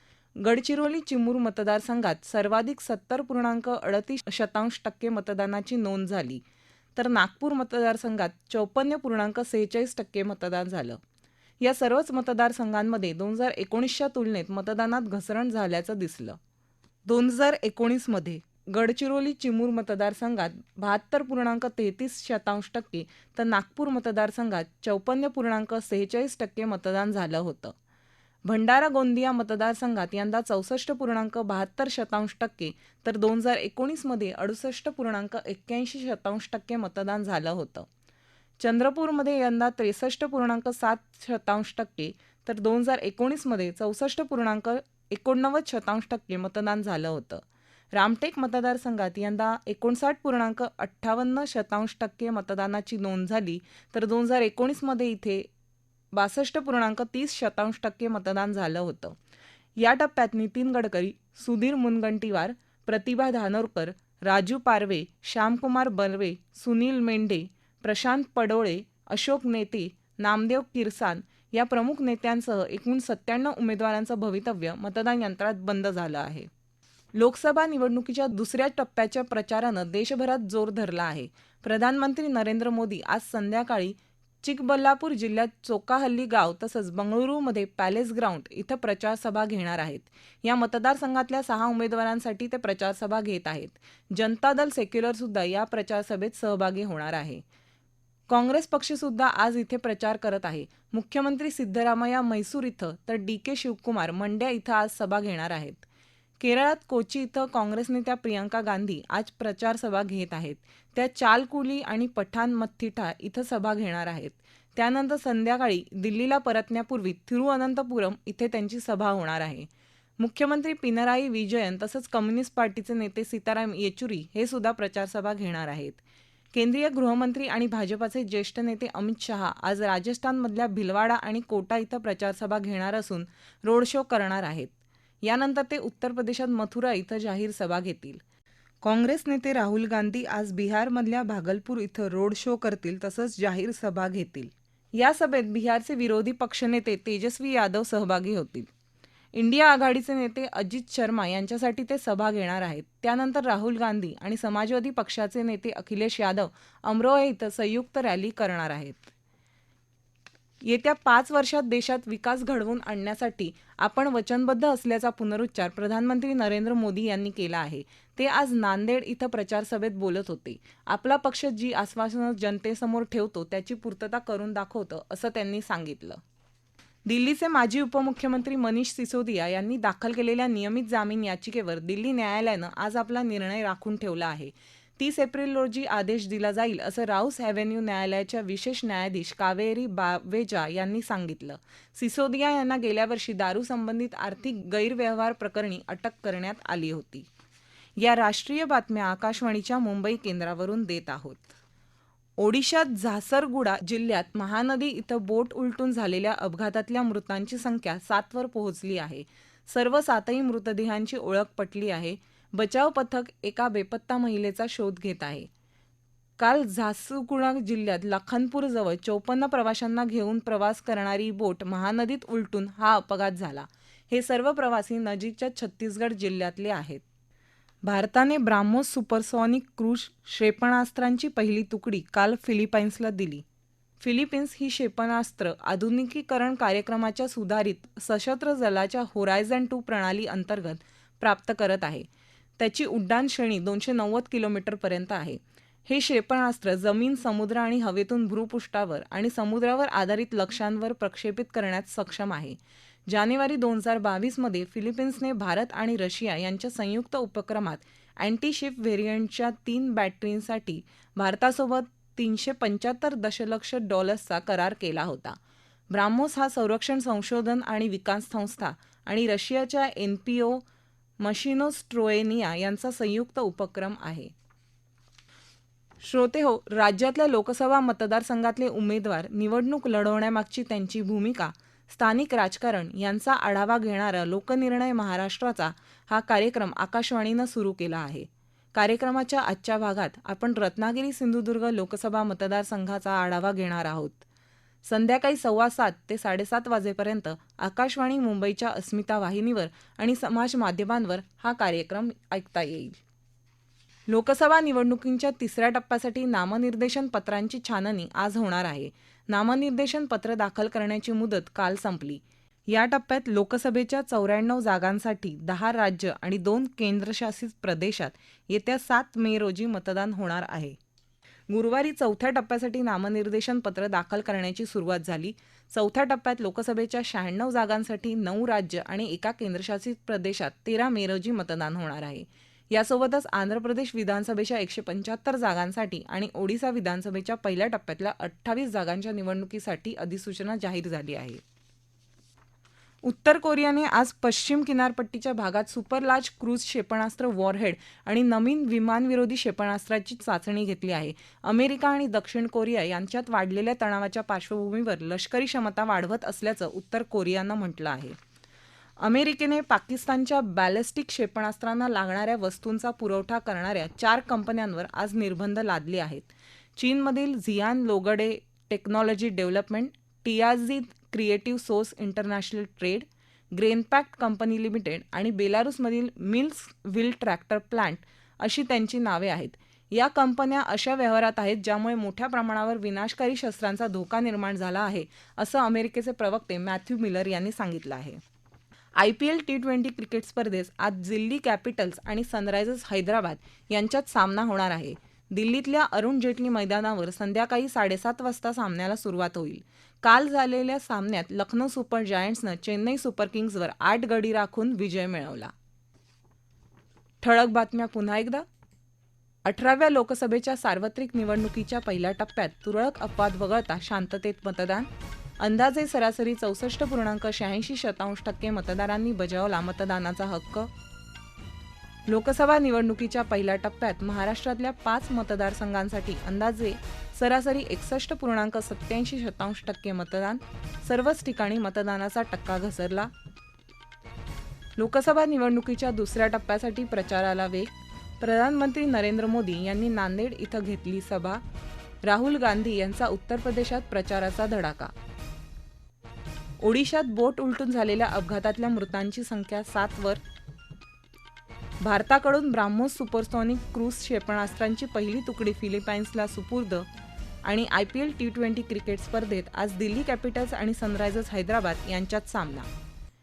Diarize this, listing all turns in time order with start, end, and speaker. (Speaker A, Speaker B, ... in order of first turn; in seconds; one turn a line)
Speaker A: 0.4-6.4
Speaker A: 7.0-11.0
Speaker A: 11.6-16.4
Speaker A: 17.1-27.8
Speaker A: 28.4-37.9
Speaker A: 38.6-55.5
Speaker A: 56.1-59.2
Speaker A: 59.8-76.5
Speaker A: 77.2-97.4
Speaker A: 98.3-105.8
Speaker A: 106.4-126.0
Speaker A: 126.5-138.2
Speaker A: 138.8-148.7
Speaker A: 149.3-159.1
Speaker A: 160.6-176.2
Speaker A: 177.1-197.3
Speaker A: 198.0-201.5
Speaker A: 202.4-215.5
Speaker A: 216.4-227.0
Speaker A: 227.8-233.4
Speaker A: 234.0-242.1
Speaker A: 242.6-265.4
Speaker A: 265.9-270.6
Speaker A: 271.2-274.3
Speaker A: 276.0-294.2
Speaker A: 294.9-303.0
Speaker A: 304.1-320.8
Speaker A: 321.5-341.4
Speaker A: 343.0-358.2
Speaker A: 359.0-388.2
Speaker A: 389.0-405.5
Speaker A: 407.2-408.5
Speaker A: 409.4-414.9
Speaker A: 415.4-420.7
Speaker A: 422.1-433.1
Speaker A: 434.8-441.4
Speaker A: 442.0-444.9
Speaker A: 446.6-450.2
Speaker A: 451.8-456.9
Speaker A: 457.4-462.7